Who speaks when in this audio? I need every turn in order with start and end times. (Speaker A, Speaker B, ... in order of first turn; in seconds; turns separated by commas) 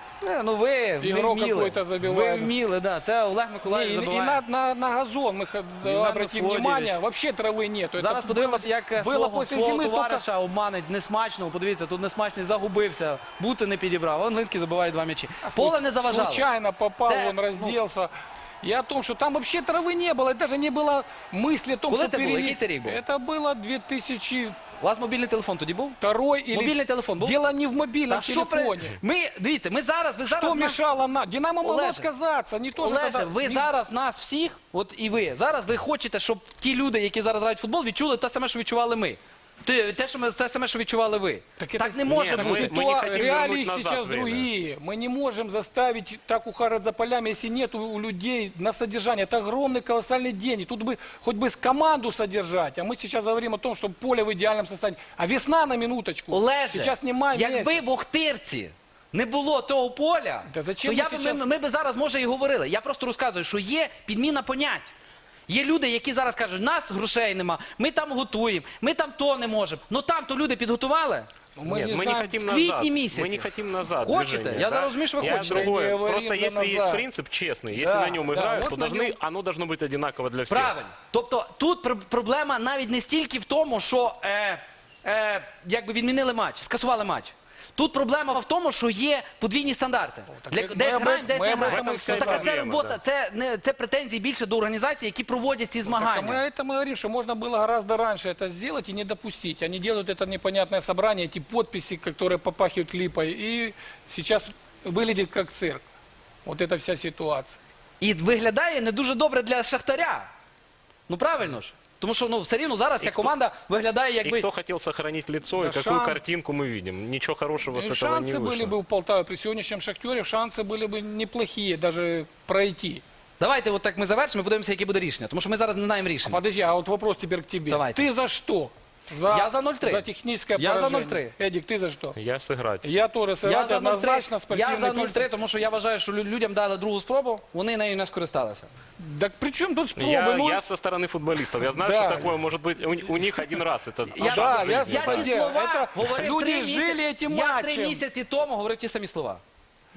Speaker A: 0.2-4.4, Speaker B: 1.0-2.5, Speaker B: 3.6-10.2, Speaker A: 5.8-7.0, Speaker A: 8.0-16.5, Speaker B: 15.4-18.1, Speaker A: 17.1-17.8, Speaker B: 18.6-24.6, Speaker A: 21.9-23.0, Speaker A: 24.8-26.0, Speaker B: 26.0-29.0, Speaker A: 26.5-27.4, Speaker A: 28.1-30.8, Speaker B: 30.2-33.7, Speaker A: 31.6-32.1, Speaker A: 32.8-43.1, Speaker B: 41.6-57.8, Speaker C: 42.1-44.5, Speaker A: 56.3-64.9, Speaker B: 60.5-61.5, Speaker A: 65.5-71.3, Speaker B: 71.6-72.4, Speaker C: 71.7-80.8, Speaker A: 72.4-75.7, Speaker B: 75.2-77.1, Speaker B: 77.7-79.2, Speaker A: 80.5-96.4, Speaker B: 90.3-92.5, Speaker C: 91.5-93.0, Speaker B: 95.9-105.8, Speaker B: 106.5-107.6, Speaker A: 108.0-110.3, Speaker A: 111.1-114.5, Speaker C: 113.0-113.3, Speaker C: 114.2-118.8, Speaker B: 115.5-116.2, Speaker B: 117.7-123.0, Speaker A: 123.4-126.4, Speaker B: 126.2-132.2, Speaker A: 127.7-128.1, Speaker A: 129.3-131.3, Speaker C: 132.2-132.9, Speaker B: 132.8-135.3, Speaker A: 133.4-138.7, Speaker B: 139.0-140.6, Speaker C: 140.0-145.4, Speaker B: 141.7-142.4, Speaker A: 144.1-149.4, Speaker B: 144.2-148.0